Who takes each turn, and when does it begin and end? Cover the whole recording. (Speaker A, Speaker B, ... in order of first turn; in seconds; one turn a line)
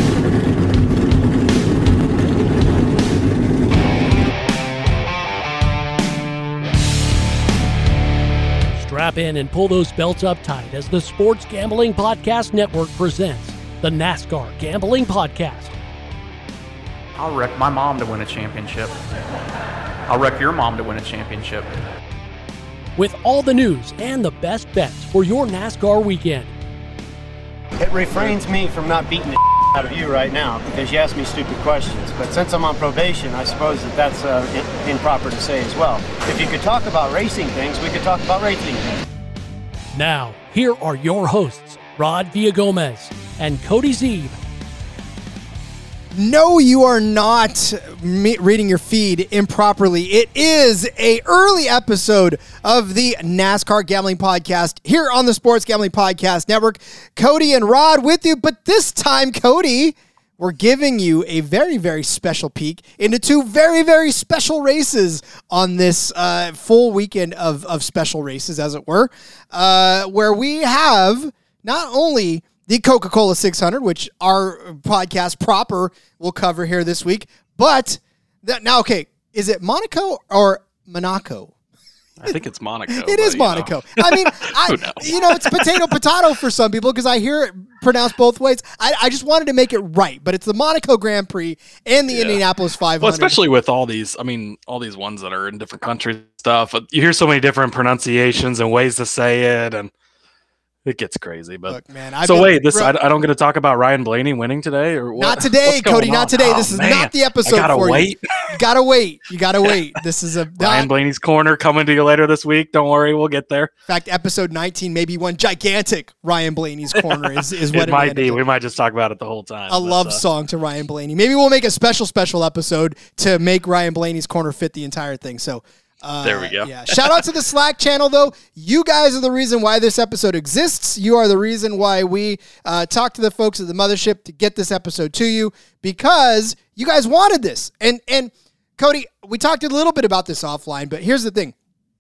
Speaker A: 8.8-15.8
Speaker B: 17.1-19.0
Speaker B: 20.1-21.7
Speaker A: 23.0-26.5
Speaker C: 27.8-39.0
Speaker A: 39.9-44.4
Speaker D: 46.1-81.5
Speaker E: 82.2-86.0
Speaker D: 82.3-93.4
Speaker E: 92.1-92.4
Speaker E: 93.0-99.9
Speaker E: 100.8-108.2
Speaker D: 101.7-102.9
Speaker D: 105.2-110.9
Speaker E: 110.6-113.7
Speaker D: 113.9-118.4
Speaker E: 117.0-120.2
Speaker D: 119.7-141.5
Speaker E: 126.2-127.3